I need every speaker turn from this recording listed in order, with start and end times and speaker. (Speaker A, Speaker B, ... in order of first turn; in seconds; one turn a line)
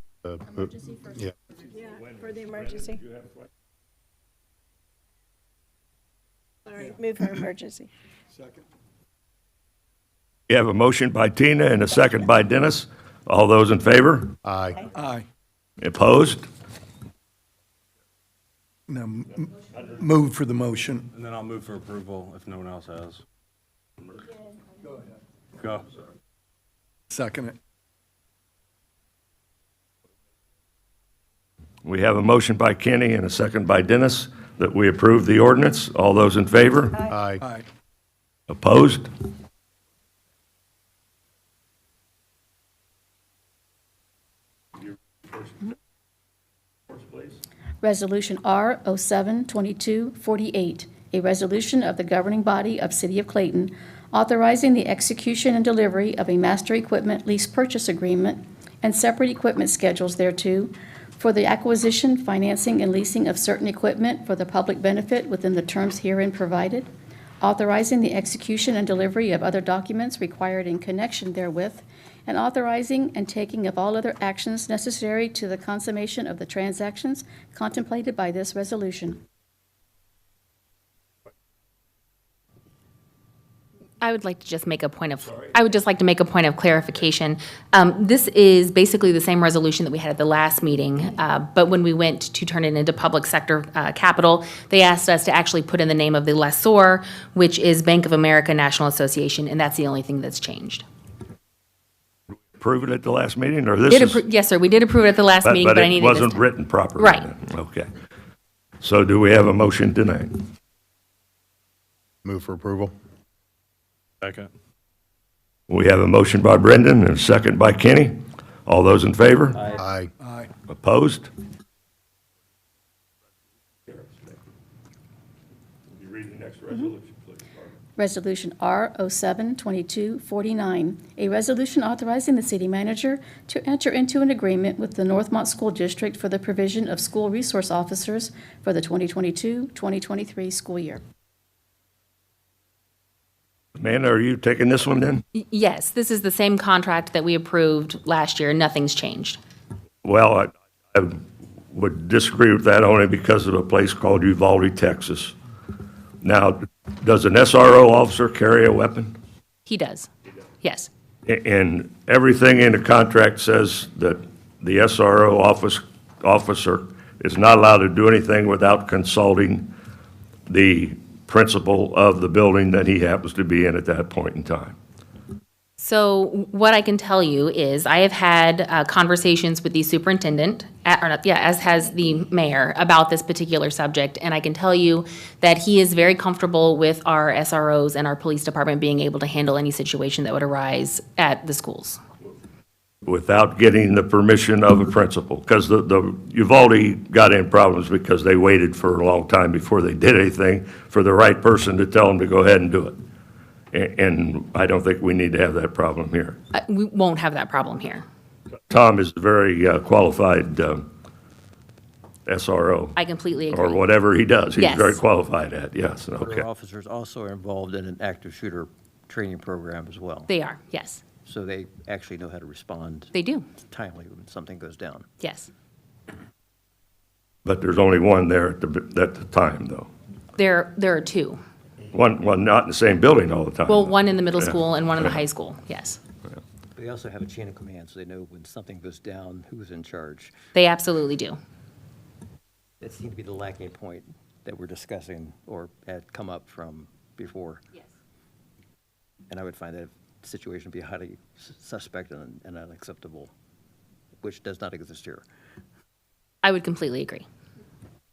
Speaker A: 0.2-1.3
Speaker B: 1.8-3.0
Speaker B: 6.7-7.9
Speaker C: 10.5-14.4
Speaker A: 14.4-14.8
Speaker D: 14.9-15.3
Speaker C: 15.8-16.4
Speaker D: 18.9-21.1
Speaker E: 21.1-23.2
Speaker D: 27.1-27.6
Speaker C: 31.9-37.1
Speaker A: 37.0-37.4
Speaker C: 38.5-39.1
Speaker F: 47.8-66.9
Speaker F: 67.4-79.2
Speaker G: 84.0-100.8
Speaker C: 102.6-104.2
Speaker G: 103.9-106.5
Speaker C: 105.4-107.9
Speaker G: 107.0-107.3
Speaker C: 108.8-110.5
Speaker A: 112.2-112.9
Speaker E: 114.2-114.5
Speaker C: 115.7-119.6
Speaker H: 119.5-119.8
Speaker A: 119.8-120.1
Speaker D: 120.2-120.5
Speaker C: 120.7-121.3
Speaker C: 123.9-124.2
Speaker C: 126.0-127.4
Speaker F: 128.0-141.0
Speaker C: 143.8-145.2
Speaker G: 145.3-149.4
Speaker C: 150.0-151.2
Speaker C: 151.7-155.4
Speaker C: 156.2-159.2
Speaker G: 159.7-160.1
Speaker G: 160.6-160.9
Speaker C: 161.3-169.7
Speaker C: 170.5-174.8
Speaker G: 175.8-192.0
Speaker C: 193.1-203.0
Speaker C: 203.7-206.4
Speaker G: 206.5-208.1
Speaker C: 208.7-210.9
Speaker C: 212.3-213.0
Speaker G: 213.0-213.8
Speaker C: 213.5-216.4
Speaker G: 214.6-215.0
Speaker H: 216.2-220.3
Speaker G: 220.3-221.0
Speaker H: 221.2-225.1
Speaker G: 223.1-223.5
Speaker G: 225.2-225.5
Speaker C: 227.4-229.9
Speaker G: 230.4-231.4
Speaker C: 231.9-234.5
Speaker G: 233.7-236.0
Speaker H: 236.8-240.3
Speaker G: 240.6-241.4
Speaker H: 242.8-247.7
Speaker H: 249.3-253.3
Speaker H: 254.2-255.2
Speaker G: 256.4-257.3